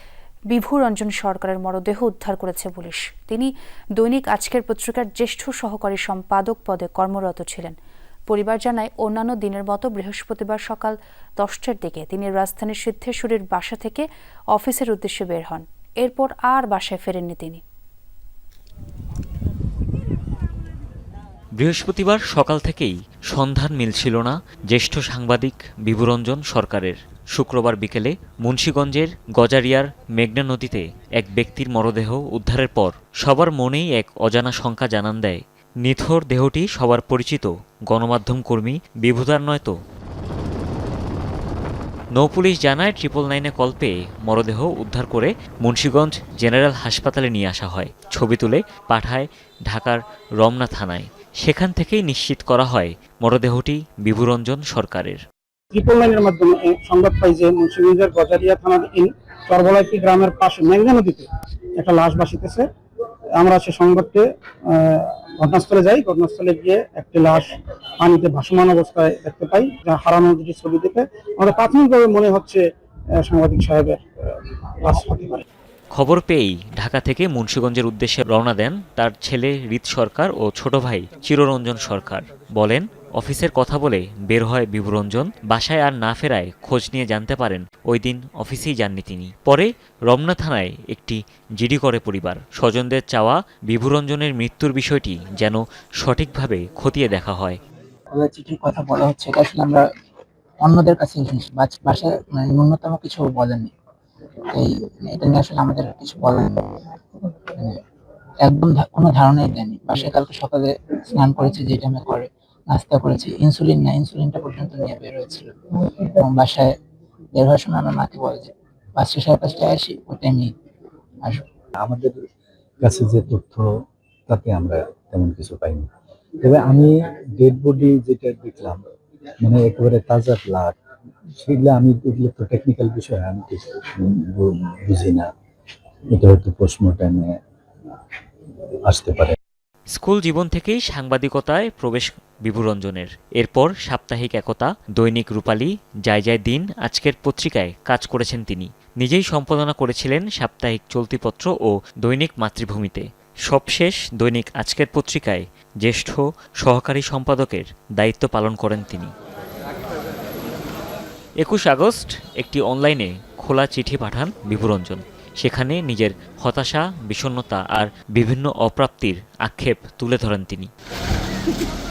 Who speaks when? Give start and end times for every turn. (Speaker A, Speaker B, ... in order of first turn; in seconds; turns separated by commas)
Speaker A: 0.5-7.8, Speaker A: 8.3-17.6, Speaker B: 21.6-39.7, Speaker B: 42.1-55.2, Speaker C: 55.7-61.3, Speaker C: 61.8-62.7, Speaker C: 63.4-72.6, Speaker C: 73.2-75.4, Speaker B: 75.9-97.6, Speaker D: 98.1-99.8, Speaker D: 100.6-103.7, Speaker D: 104.5-106.6, Speaker D: 108.4-116.7, Speaker D: 117.3-120.5, Speaker E: 121.8-122.1, Speaker E: 122.8-123.7, Speaker E: 124.3-125.9, Speaker E: 126.4-128.8, Speaker E: 129.4-130.8, Speaker E: 131.4-135.3, Speaker E: 136.2-137.3, Speaker E: 138.9-139.4, Speaker B: 139.9-159.1, Speaker B: 161.4-170.7